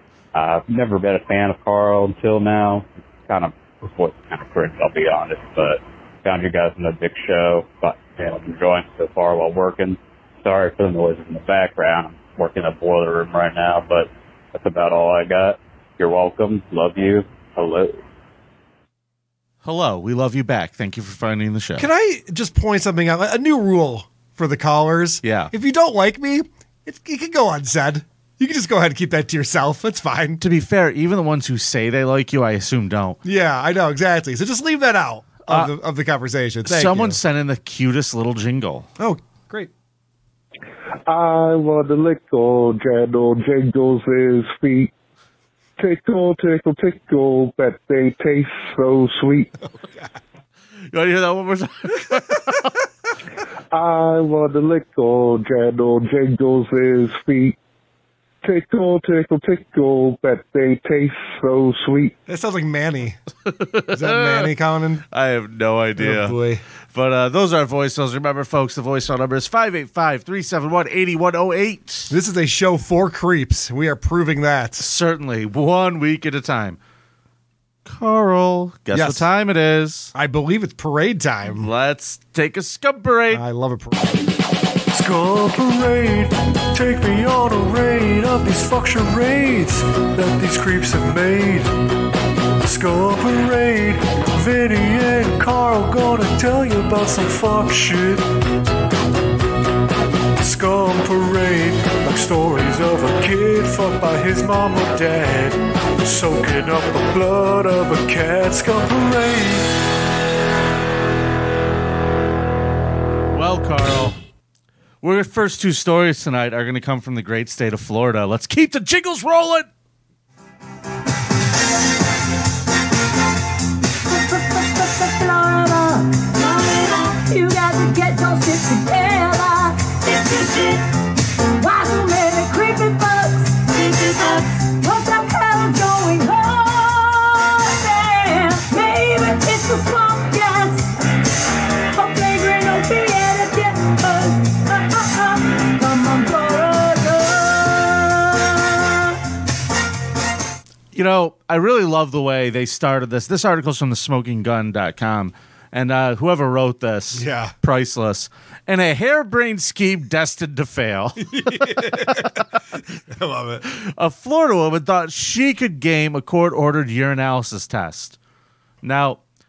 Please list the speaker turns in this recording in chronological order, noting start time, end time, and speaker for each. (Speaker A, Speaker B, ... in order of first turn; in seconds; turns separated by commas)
Speaker A: 0.3-18.0, Speaker B: 19.6-21.9, Speaker C: 21.8-30.4, Speaker B: 25.2-25.5, Speaker B: 30.4-33.2, Speaker C: 33.2-37.2, Speaker B: 35.5-35.7, Speaker B: 36.6-38.9, Speaker C: 39.0-39.7, Speaker D: 41.2-44.9, Speaker D: 45.9-49.5, Speaker C: 49.7-50.1, Speaker B: 50.9-52.8, Speaker D: 53.8-57.5, Speaker D: 58.5-62.1, Speaker C: 62.3-63.2, Speaker B: 63.5-64.5, Speaker C: 63.9-65.0, Speaker B: 65.1-66.4, Speaker C: 66.0-66.6, Speaker B: 66.9-72.1, Speaker C: 72.1-74.8, Speaker B: 74.8-76.8, Speaker B: 77.8-80.1, Speaker C: 78.9-79.3, Speaker C: 80.1-81.7, Speaker B: 81.5-83.4, Speaker C: 83.3-84.2, Speaker E: 84.9-91.7, Speaker E: 92.6-98.3, Speaker E: 100.4-109.7, Speaker B: 113.3-114.2, Speaker B: 115.0-119.7, Speaker F: 124.1-130.8, Speaker F: 131.6-140.9, Speaker F: 141.9-149.2, Speaker B: 150.9-161.9, Speaker C: 157.1-157.5, Speaker C: 161.2-162.4, Speaker C: 163.1-163.6, Speaker B: 163.6-168.2, Speaker B: 168.8-169.2